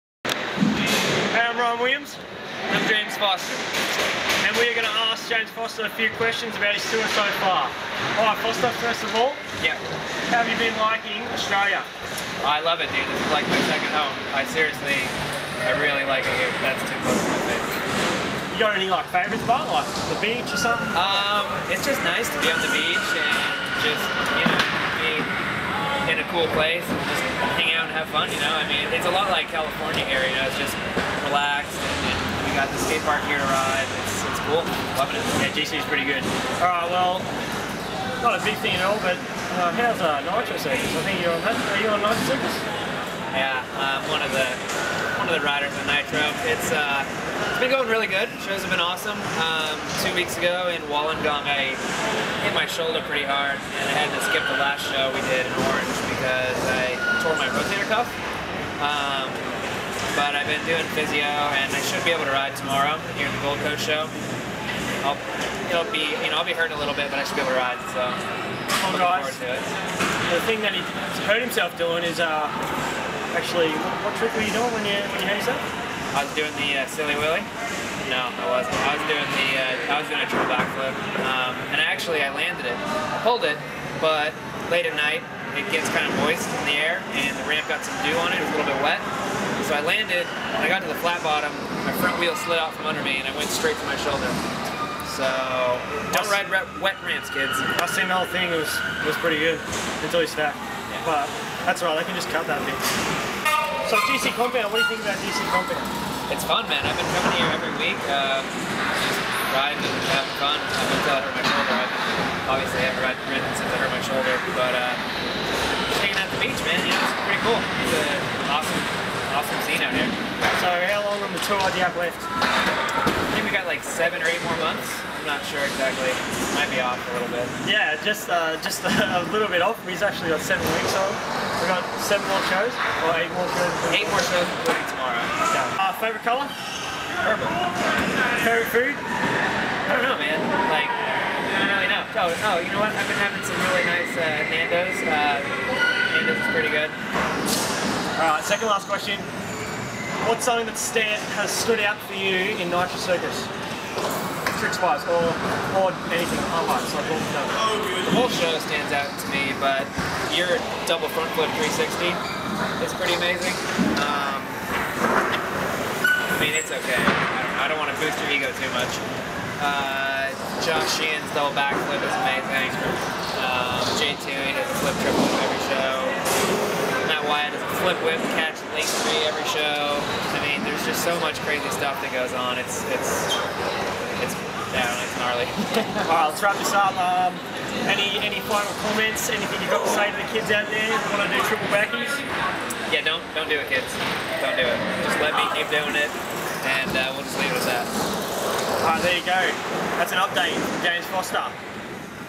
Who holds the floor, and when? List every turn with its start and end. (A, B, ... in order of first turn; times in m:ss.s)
0:01.3-0:02.2 A
0:02.7-0:03.7 B
0:04.4-0:09.4 A
0:10.3-0:11.9 A
0:12.4-0:17.8 B
0:18.5-0:21.2 A
0:20.9-0:25.3 B
0:26.0-0:35.3 B
0:35.4-0:37.3 A
0:38.2-0:42.6 A
0:43.3-0:44.6 B
0:45.1-0:51.8 B
0:52.4-0:58.1 B
0:58.8-0:59.5 B
1:00.1-1:04.1 B
1:05.0-1:08.2 B
1:08.8-1:09.4 A
1:08.8-1:09.7 B
1:10.3-1:12.5 A
1:13.3-1:15.6 A
1:16.1-1:17.5 B
1:18.0-1:29.1 B
1:29.6-1:34.4 B
1:35.0-1:37.7 B
1:36.1-1:36.4 A
1:37.8-1:42.8 A
1:43.8-1:45.9 A
1:46.3-1:55.0 B
1:55.9-2:00.2 B
2:00.5-2:02.2 A
2:03.3-2:07.5 B
2:07.6-2:14.5 A
2:13.9-2:15.3 B
2:15.5-2:16.5 A
2:17.2-2:17.6 B
2:18.4-2:19.0 A
2:19.8-2:25.5 B
2:26.1-2:27.0 B
2:28.2-2:29.3 A
2:30.2-2:33.5 A
2:34.5-2:37.6 A
2:38.1-2:42.2 B
2:42.8-2:44.6 B
2:46.3-2:49.0 B
2:49.6-2:56.2 B
2:57.0-3:03.3 B
3:04.2-3:06.1 B
3:06.0-3:12.2 A
3:12.9-3:17.9 B
3:18.8-3:21.6 A